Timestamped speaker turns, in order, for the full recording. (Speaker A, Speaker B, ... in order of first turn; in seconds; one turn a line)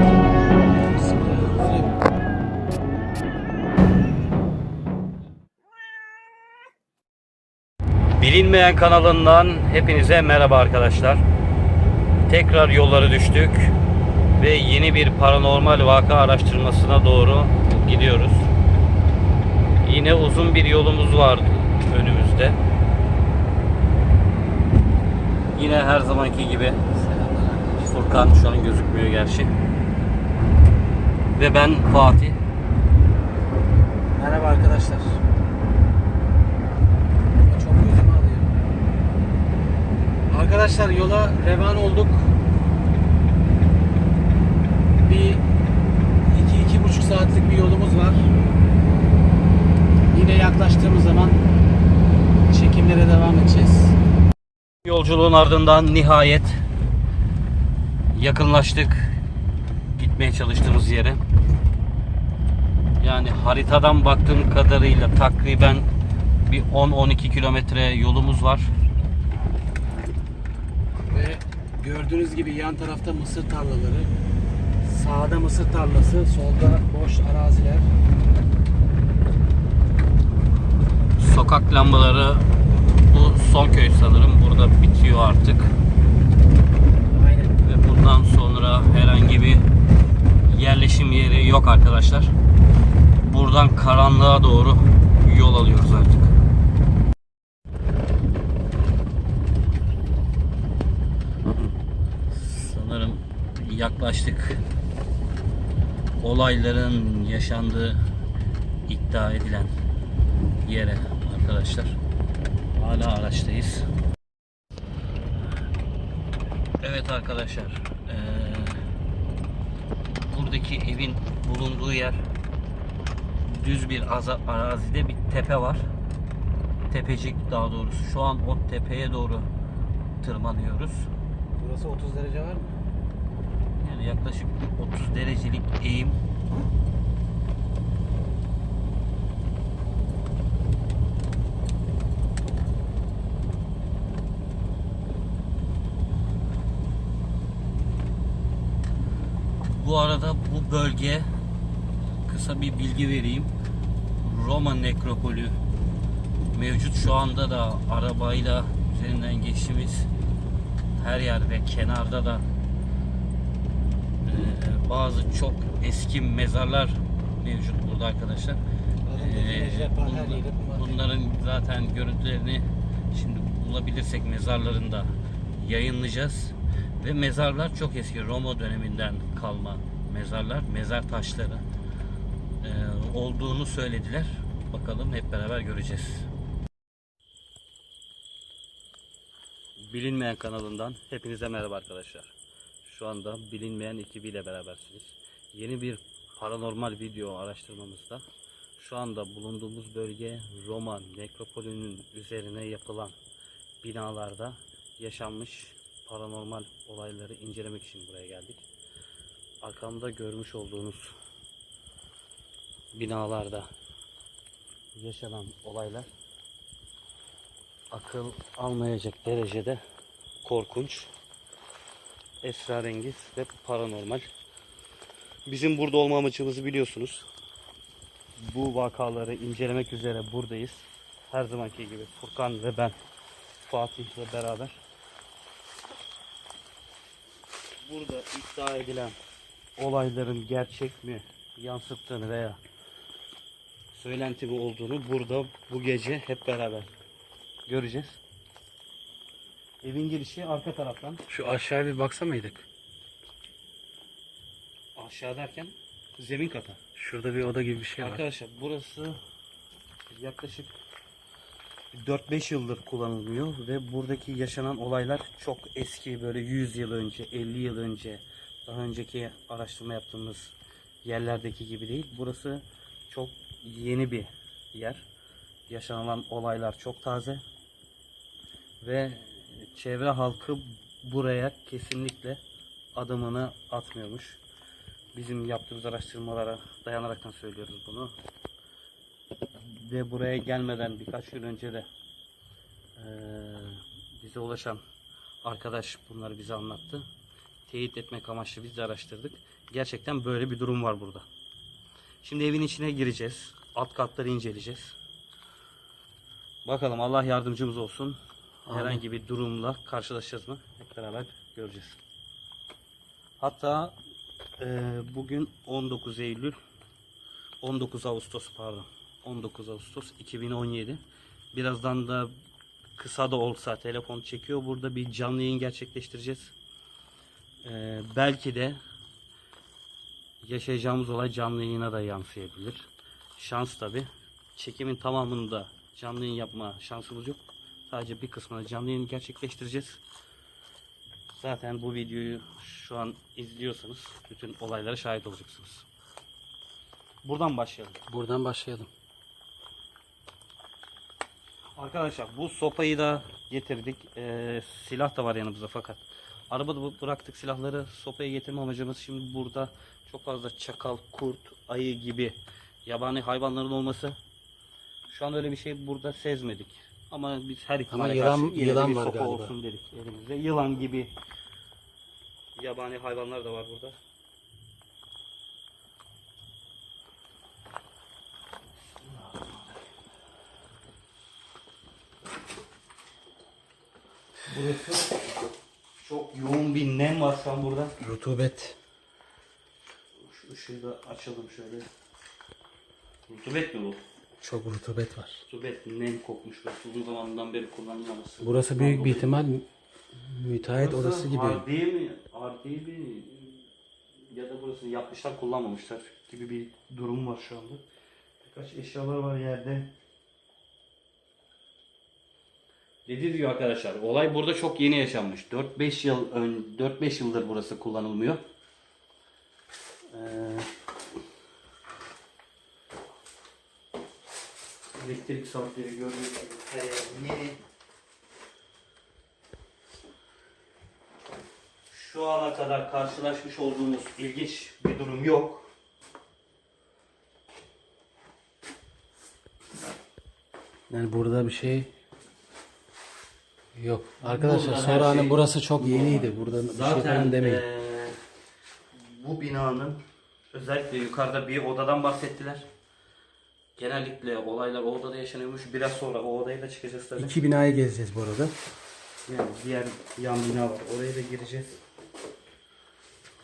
Speaker A: 0.8-2.0
Speaker B: 8.2-11.2
Speaker B: 12.3-13.7
Speaker B: 14.4-18.5
Speaker B: 19.8-22.6
Speaker B: 25.5-26.8
Speaker A: 26.9-28.0
Speaker B: 27.8-29.5
Speaker B: 31.4-32.4
Speaker A: 34.2-35.2
Speaker A: 37.4-38.6
Speaker A: 40.3-42.4
Speaker A: 45.0-45.4
Speaker A: 46.3-48.3
Speaker A: 50.1-51.4
Speaker A: 52.5-54.0
Speaker B: 54.8-56.6
Speaker B: 58.1-59.1
Speaker B: 59.9-61.2
Speaker B: 63.0-65.9
Speaker B: 66.5-68.7
Speaker A: 71.1-74.1
Speaker A: 74.8-77.9
Speaker B: 81.2-85.7
Speaker A: 87.1-87.6
Speaker B: 87.6-89.7
Speaker B: 90.5-92.3
Speaker B: 93.2-96.3
Speaker B: 102.3-104.6
Speaker B: 106.2-108.0
Speaker B: 108.9-109.7
Speaker B: 110.6-112.0
Speaker B: 112.7-113.9
Speaker B: 116.8-118.8
Speaker B: 120.2-122.2
Speaker B: 123.5-125.9
Speaker B: 126.9-129.5
Speaker B: 130.2-131.1
Speaker A: 131.6-132.8
Speaker B: 133.8-136.2
Speaker B: 149.7-151.3
Speaker B: 152.3-153.5
Speaker B: 154.2-155.6
Speaker B: 156.5-160.1
Speaker B: 161.0-162.4
Speaker B: 164.2-168.6
Speaker A: 169.1-171.0
Speaker B: 169.1-181.6
Speaker B: 182.6-186.3
Speaker B: 189.8-192.3
Speaker B: 192.8-198.2
Speaker B: 198.8-203.2
Speaker B: 203.8-208.7
Speaker B: 209.6-211.1
Speaker B: 212.9-213.7
Speaker B: 214.9-216.1
Speaker B: 217.9-219.8
Speaker B: 220.4-221.1
Speaker B: 222.4-224.3
Speaker B: 225.5-227.3
Speaker B: 228.4-233.0
Speaker B: 233.6-234.8
Speaker B: 237.8-239.2
Speaker B: 239.8-242.6
Speaker B: 243.9-246.9
Speaker B: 247.7-248.2
Speaker B: 249.8-251.2
Speaker A: 251.3-252.7
Speaker B: 255.0-256.8
Speaker A: 257.0-258.2
Speaker B: 258.0-259.2
Speaker B: 260.1-260.7
Speaker B: 261.9-270.5
Speaker B: 271.0-275.1
Speaker B: 275.7-277.4
Speaker B: 278.8-282.4
Speaker B: 282.9-284.4
Speaker B: 285.1-288.1
Speaker B: 289.6-291.9
Speaker B: 293.0-294.8
Speaker B: 295.4-297.1
Speaker B: 297.7-301.3
Speaker B: 302.2-304.9
Speaker B: 306.6-308.2
Speaker A: 308.7-309.0
Speaker B: 308.7-312.0
Speaker B: 313.4-314.0
Speaker B: 314.6-316.6
Speaker B: 317.6-321.0
Speaker B: 321.5-322.3
Speaker B: 323.0-326.5
Speaker B: 327.6-328.8
Speaker B: 330.4-340.0
Speaker B: 341.3-345.9
Speaker B: 347.2-348.0
Speaker A: 348.1-348.9
Speaker B: 351.8-364.2
Speaker B: 365.1-371.1
Speaker A: 367.9-369.5
Speaker B: 372.6-374.0
Speaker B: 378.9-379.8
Speaker A: 384.5-385.1
Speaker B: 386.0-387.9
Speaker A: 388.0-388.8
Speaker B: 390.2-391.9
Speaker B: 393.3-394.0
Speaker A: 394.4-395.4
Speaker B: 395.5-399.3
Speaker A: 398.4-401.6
Speaker B: 400.8-403.7
Speaker B: 404.3-407.8
Speaker B: 408.4-409.9
Speaker B: 413.1-418.4
Speaker B: 420.1-420.7
Speaker B: 425.0-427.6
Speaker B: 431.9-435.7
Speaker A: 440.9-441.9
Speaker A: 443.8-447.6
Speaker B: 444.2-448.2
Speaker B: 448.9-452.7
Speaker B: 453.8-457.4
Speaker A: 457.2-458.6
Speaker B: 459.3-461.8